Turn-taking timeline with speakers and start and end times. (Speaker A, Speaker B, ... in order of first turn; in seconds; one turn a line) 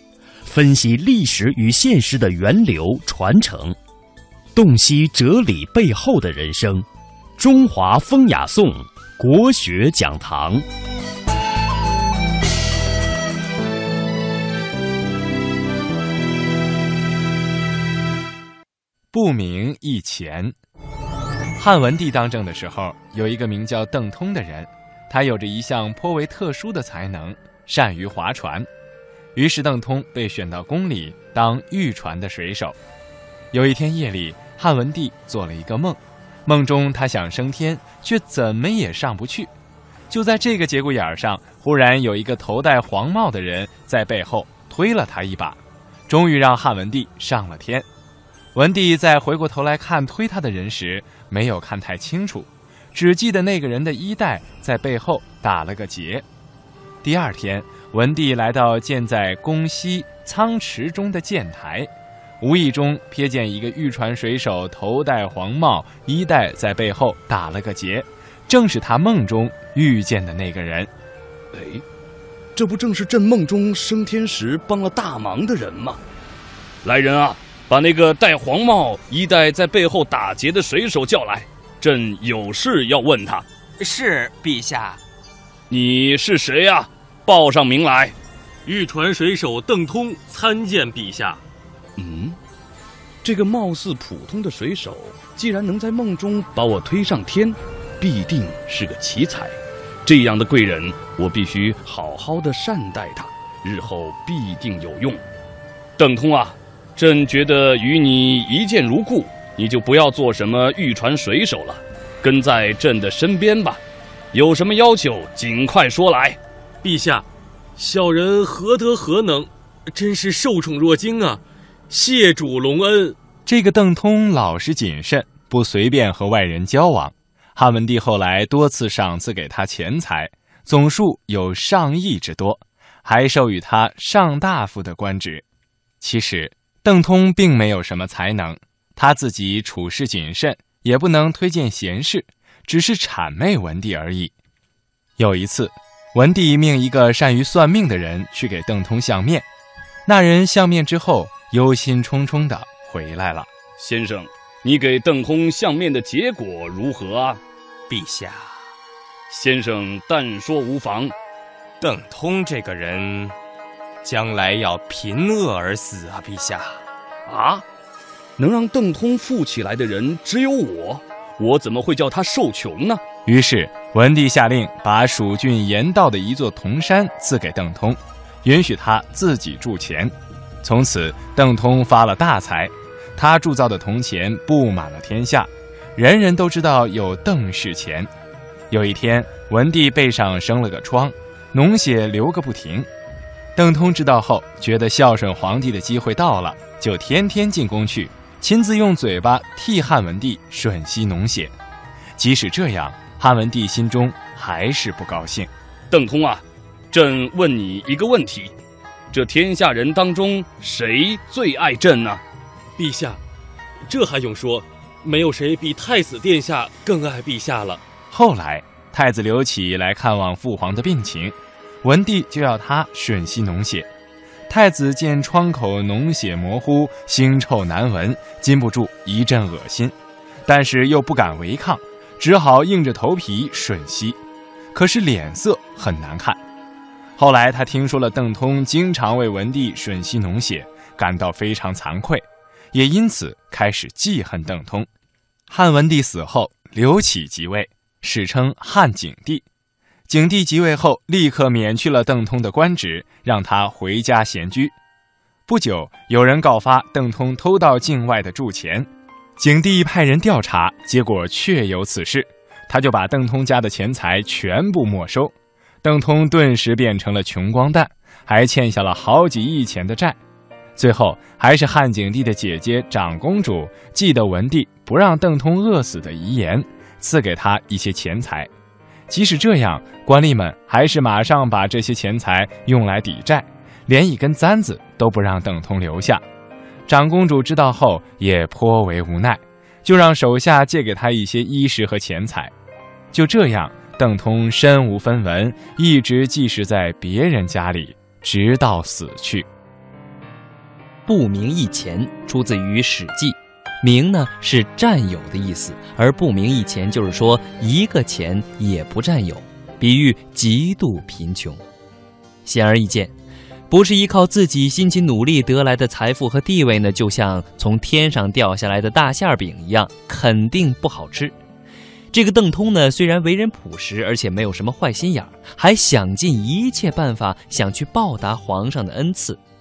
Speaker A: 0.4-3.8
Speaker A: 4.5-10.6
Speaker B: 19.1-20.5
Speaker B: 21.6-28.7
Speaker B: 29.3-32.8
Speaker B: 33.5-39.5
Speaker B: 40.1-47.9
Speaker B: 48.5-56.2
Speaker B: 57.0-70.9
Speaker C: 71.5-71.8
Speaker C: 72.5-76.0
Speaker C: 76.8-83.5
Speaker D: 83.8-85.0
Speaker C: 85.7-88.1
Speaker E: 88.7-91.3
Speaker C: 92.0-92.4
Speaker C: 93.2-105.2
Speaker C: 106.0-113.8
Speaker C: 114.3-116.4
Speaker E: 116.8-117.2
Speaker E: 117.8-123.1
Speaker B: 123.5-135.4
Speaker B: 136.0-144.3
Speaker B: 145.2-149.4
Speaker B: 150.1-153.5
Speaker C: 153.8-157.4
Speaker D: 157.9-158.5
Speaker C: 159.3-161.1
Speaker D: 161.8-163.3
Speaker D: 164.0-166.8
Speaker C: 167.3-167.6
Speaker C: 168.4-173.0
Speaker B: 173.2-188.1
Speaker B: 188.7-192.9
Speaker B: 193.6-201.5
Speaker B: 202.2-205.5
Speaker C: 205.9-208.5
Speaker C: 209.1-212.2
Speaker E: 212.8-213.2
Speaker E: 213.9-217.8
Speaker B: 218.1-223.9
Speaker B: 224.5-229.9
Speaker B: 230.4-234.2
Speaker B: 234.7-236.4
Speaker B: 237.2-244.9
Speaker B: 245.5-249.4
Speaker B: 250.1-254.7
Speaker B: 255.5-270.2
Speaker B: 270.8-278.5
Speaker B: 279.1-286.2
Speaker B: 286.9-292.5
Speaker B: 293.1-299.5
Speaker F: 301.1-311.6
Speaker F: 312.4-313.1
Speaker F: 313.7-321.3
Speaker F: 322.1-329.4